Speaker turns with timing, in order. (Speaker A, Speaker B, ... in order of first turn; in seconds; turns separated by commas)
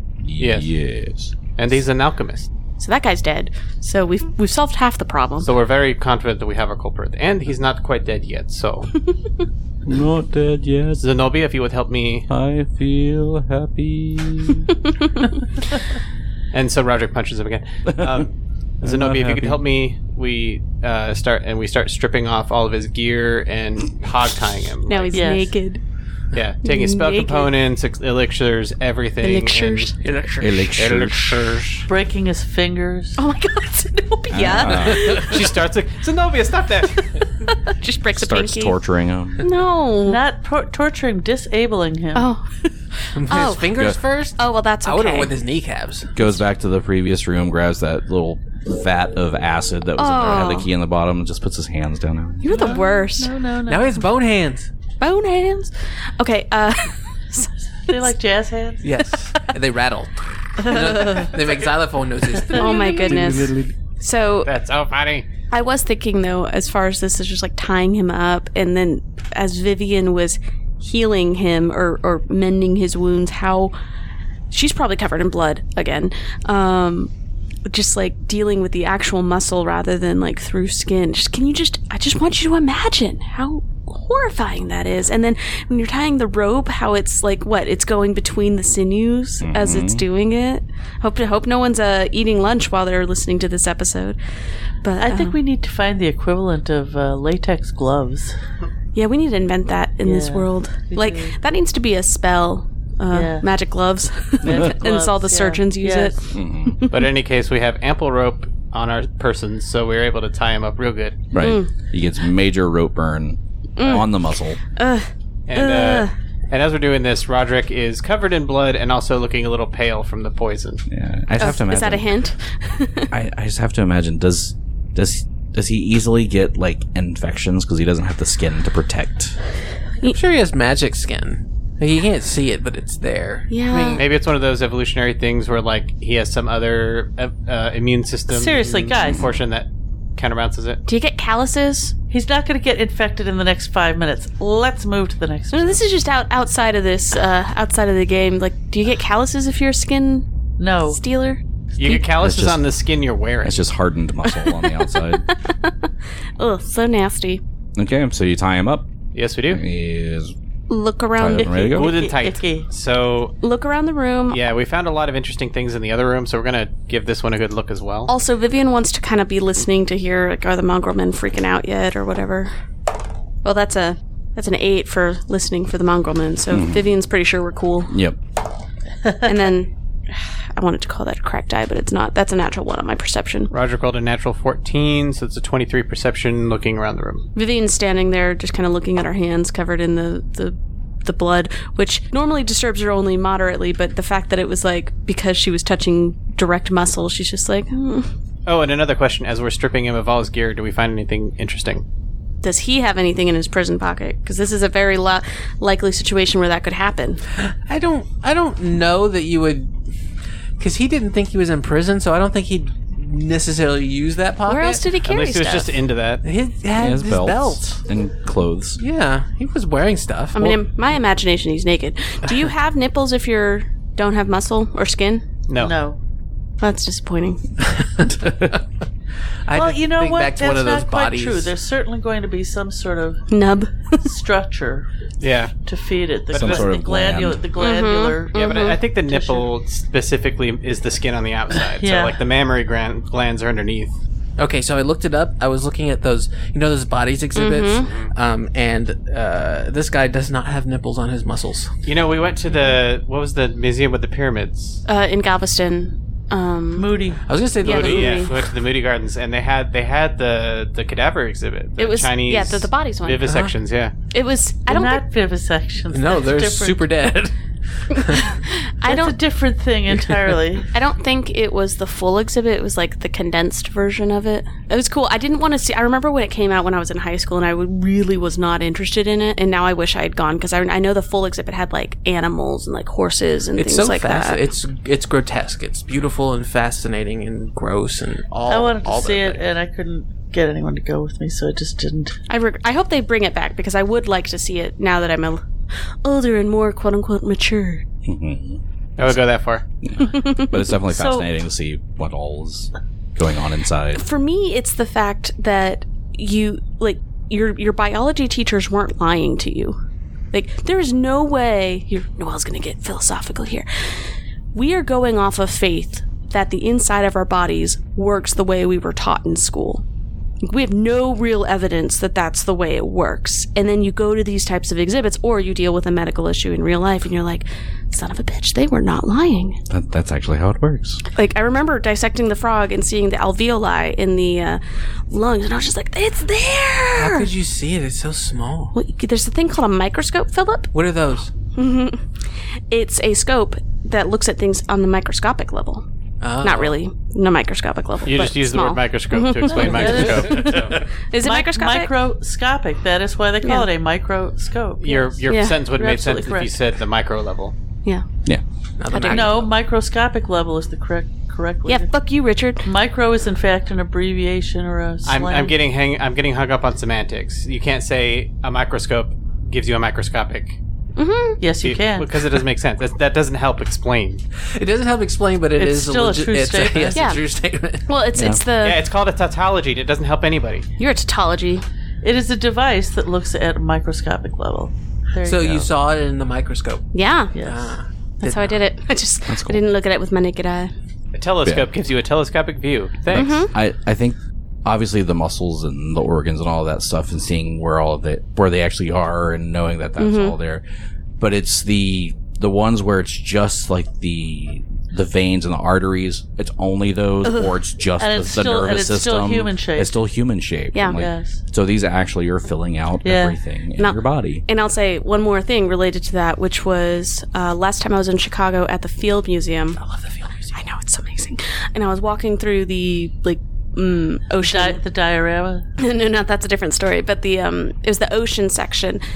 Speaker A: 0.2-1.3, Speaker B: 0.4-0.7, Speaker B: 1.6-2.5, Speaker C: 2.8-5.5, Speaker B: 5.4-8.9, Speaker A: 9.8-11.1, Speaker B: 11.0-12.3, Speaker A: 12.3-14.7, Speaker C: 14.7-15.2, Speaker B: 16.5-25.1, Speaker A: 17.9-18.2, Speaker A: 18.8-19.6, Speaker C: 24.9-25.8, Speaker D: 25.1-25.5, Speaker B: 26.3-29.9, Speaker C: 26.6-27.5, Speaker C: 29.2-30.0, Speaker E: 30.0-30.8, Speaker A: 30.4-31.5, Speaker B: 30.7-31.9, Speaker D: 31.9-33.2, Speaker C: 33.2-35.5, Speaker A: 34.3-35.2, Speaker B: 35.1-37.2, Speaker C: 37.0-38.8, Speaker A: 38.1-39.5, Speaker C: 39.4-40.2, Speaker D: 40.0-42.3, Speaker C: 42.1-43.8, Speaker E: 43.1-46.3, Speaker C: 44.4-45.3, Speaker A: 46.1-52.6, Speaker C: 50.0-50.7, Speaker C: 52.4-53.3, Speaker D: 52.5-54.0, Speaker E: 52.5-53.0, Speaker E: 53.6-54.7, Speaker C: 55.0-58.1, Speaker D: 57.9-58.9, Speaker E: 58.8-63.4, Speaker C: 60.6-61.4, Speaker C: 62.5-64.5, Speaker D: 62.6-63.1, Speaker A: 63.1-63.7, Speaker B: 64.4-65.2, Speaker C: 65.5-73.7, Speaker C: 74.5-77.1, Speaker C: 77.7-94.2, Speaker A: 89.4-90.0, Speaker C: 94.8-95.4, Speaker D: 95.0-98.3, Speaker C: 98.9-107.1, Speaker D: 100.0-101.3, Speaker D: 103.1-103.5, Speaker D: 104.4-106.1, Speaker A: 106.3-106.8, Speaker B: 106.9-111.2, Speaker A: 111.3-114.6, Speaker C: 111.4-111.7, Speaker C: 113.8-114.2, Speaker C: 114.8-116.1, Speaker B: 115.5-120.8, Speaker A: 120.9-122.1, Speaker C: 121.4-123.1, Speaker A: 123.1-129.4, Speaker E: 130.1-134.1, Speaker C: 133.5-134.0, Speaker B: 133.9-140.8, Speaker D: 138.3-139.3, Speaker A: 139.0-139.4, Speaker C: 140.8-141.9, Speaker D: 142.1-145.8, Speaker C: 145.5-150.2, Speaker D: 150.6-151.0, Speaker C: 150.9-152.0, Speaker B: 151.8-153.6, Speaker A: 152.2-152.6, Speaker A: 153.4-155.3, Speaker C: 154.3-157.4, Speaker A: 157.8-158.9, Speaker B: 159.1-159.6, Speaker A: 159.5-160.3, Speaker C: 160.7-161.7, Speaker A: 161.2-162.0, Speaker D: 161.3-162.7, Speaker B: 161.7-163.4, Speaker C: 163.4-164.4, Speaker B: 164.3-168.1, Speaker C: 168.1-172.5, Speaker C: 173.4-177.9, Speaker A: 176.5-176.9, Speaker A: 177.9-178.2, Speaker C: 179.2-183.5, Speaker B: 183.5-187.2, Speaker C: 187.3-198.1, Speaker B: 198.4-201.8, Speaker C: 202.4-207.2, Speaker E: 207.5-209.7, Speaker E: 210.6-214.9, Speaker C: 214.5-215.8, Speaker B: 215.0-216.2, Speaker E: 216.2-217.7, Speaker A: 216.8-218.8, Speaker E: 218.8-220.6, Speaker C: 220.3-225.2, Speaker B: 225.5-225.8, Speaker D: 225.5-226.0, Speaker C: 226.6-227.4, Speaker A: 228.2-228.5, Speaker E: 229.5-231.5, Speaker D: 229.5-233.3, Speaker C: 233.3-234.0, Speaker D: 234.0-234.9, Speaker B: 235.2-235.5, Speaker D: 235.6-239.5, Speaker B: 236.3-236.7, Speaker A: 236.3-237.5, Speaker C: 237.6-238.8, Speaker B: 238.3-243.9, Speaker D: 241.7-242.2, Speaker E: 244.4-251.7, Speaker C: 247.3-247.9, Speaker B: 247.8-248.1, Speaker B: 251.8-254.8, Speaker C: 254.8-256.9, Speaker D: 256.8-257.2, Speaker E: 257.3-258.3, Speaker C: 257.6-258.4, Speaker B: 257.6-263.9, Speaker C: 261.8-263.3, Speaker E: 263.2-263.5, Speaker C: 264.1-265.0, Speaker D: 264.7-266.9, Speaker E: 265.9-267.3, Speaker E: 267.9-268.2, Speaker C: 267.9-269.1, Speaker D: 268.8-270.7, Speaker C: 270.7-284.4, Speaker E: 283.5-289.4, Speaker D: 288.5-292.1, Speaker C: 292.3-295.4, Speaker C: 296.0-297.8, Speaker A: 298.1-298.6, Speaker B: 299.0-299.6, Speaker A: 299.8-304.0, Speaker C: 300.0-300.6, Speaker D: 300.9-301.3, Speaker C: 303.9-309.8, Speaker C: 310.3-313.7, Speaker C: 314.5-319.8, Speaker C: 320.4-329.6, Speaker A: 329.7-331.0, Speaker C: 331.1-337.3, Speaker E: 336.9-338.7, Speaker C: 338.7-340.7, Speaker E: 340.7-341.3, Speaker C: 341.5-342.0, Speaker C: 342.7-345.8, Speaker E: 346.2-346.8, Speaker C: 346.4-351.9, Speaker B: 348.0-350.8, Speaker D: 349.5-356.6, Speaker C: 353.4-353.7, Speaker B: 354.8-357.5, Speaker C: 355.3-355.6, Speaker E: 358.8-359.5, Speaker C: 358.9-359.3, Speaker D: 359.0-361.9, Speaker C: 361.7-362.7, Speaker D: 362.6-365.6, Speaker B: 365.0-370.6, Speaker C: 370.9-371.4, Speaker D: 371.4-372.2, Speaker B: 371.6-374.2, Speaker E: 374.5-377.9, Speaker D: 375.6-377.1, Speaker C: 376.9-377.2, Speaker C: 377.9-378.8, Speaker B: 378.6-380.6, Speaker C: 380.8-381.6, Speaker D: 382.0-385.6, Speaker E: 385.2-386.8, Speaker C: 386.9-387.3, Speaker D: 387.3-387.8, Speaker E: 387.4-388.6, Speaker C: 388.2-390.7, Speaker A: 389.3-389.6, Speaker B: 391.1-393.4, Speaker C: 393.1-393.5, Speaker A: 393.1-400.6, Speaker C: 400.0-400.3, Speaker A: 401.2-414.4, Speaker D: 408.0-409.9, Speaker C: 410.7-411.0, Speaker D: 410.9-411.4, Speaker D: 413.0-413.4, Speaker C: 413.8-419.8, Speaker E: 419.8-420.5, Speaker C: 420.5-424.8, Speaker D: 424.4-425.7, Speaker C: 425.8-429.0